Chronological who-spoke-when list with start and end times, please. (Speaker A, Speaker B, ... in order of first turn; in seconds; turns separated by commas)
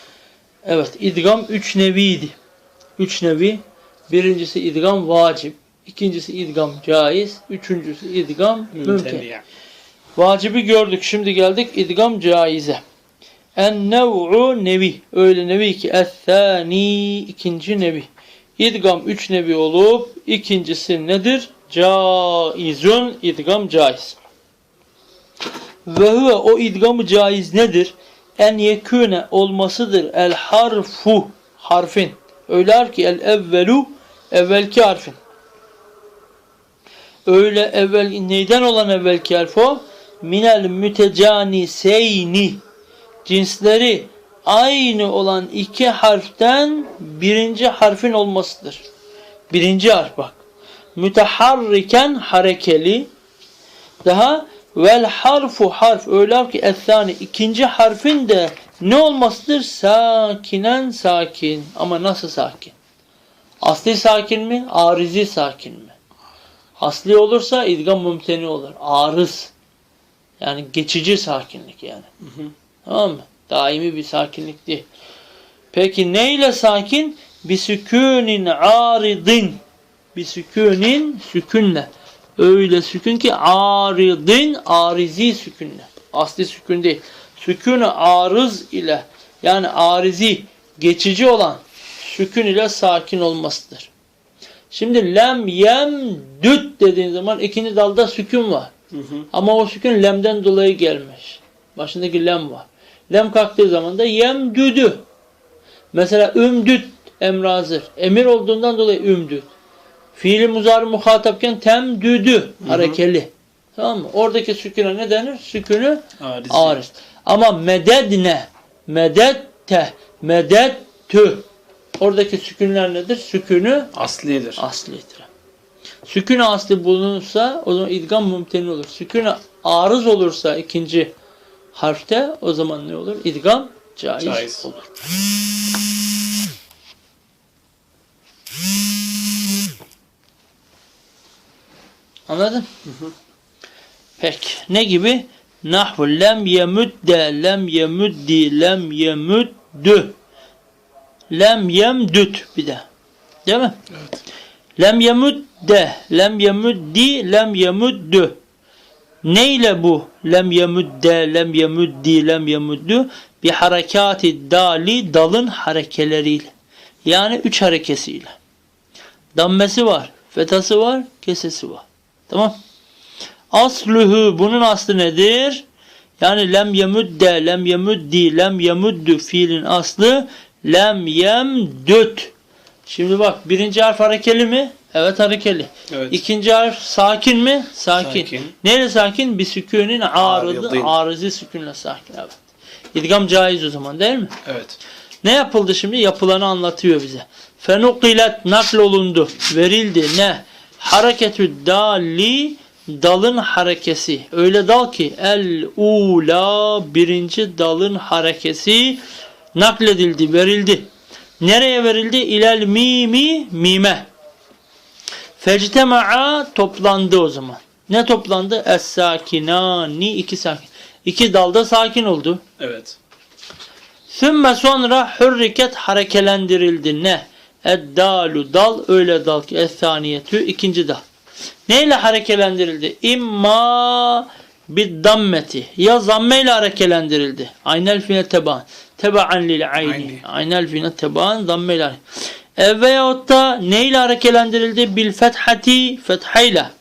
Speaker A: 0.6-2.3, Speaker A: 3.0-9.2, Speaker B: 8.7-9.4, Speaker A: 10.2-12.8, Speaker A: 13.6-24.2, Speaker A: 25.9-35.2, Speaker A: 37.2-42.6, Speaker A: 43.2-48.8, Speaker A: 49.5-50.4, Speaker A: 51.0-53.1, Speaker A: 54.0-62.7, Speaker A: 63.6-66.0, Speaker A: 66.8-69.5, Speaker A: 70.4-72.1, Speaker B: 72.2-72.5, Speaker A: 72.8-74.8, Speaker A: 75.7-79.6, Speaker A: 80.1-93.9, Speaker A: 94.7-98.7, Speaker B: 98.9-99.3, Speaker A: 99.3-105.0, Speaker A: 105.9-109.5, Speaker A: 110.1-121.5, Speaker B: 112.6-113.0, Speaker B: 116.2-116.8, Speaker A: 122.0-123.9, Speaker B: 123.9-124.6, Speaker A: 124.6-125.3, Speaker A: 126.1-131.1, Speaker A: 131.7-135.0, Speaker B: 134.2-134.7, Speaker A: 142.3-142.7, Speaker B: 142.8-143.1, Speaker A: 144.2-150.2, Speaker A: 151.3-152.8, Speaker A: 153.4-153.8, Speaker B: 153.9-154.2, Speaker A: 154.8-158.4, Speaker A: 159.2-166.5, Speaker A: 167.0-168.3, Speaker A: 169.3-172.6, Speaker A: 173.5-175.6, Speaker A: 176.2-182.3, Speaker A: 182.9-192.3, Speaker B: 185.9-186.2, Speaker B: 187.9-188.5, Speaker B: 190.2-190.9, Speaker A: 192.9-194.3, Speaker B: 194.4-194.8, Speaker A: 195.2-209.0, Speaker A: 209.5-210.9, Speaker A: 211.4-214.1, Speaker A: 215.4-222.4, Speaker B: 222.6-222.9, Speaker A: 224.1-231.0, Speaker A: 231.7-246.7, Speaker B: 239.8-240.2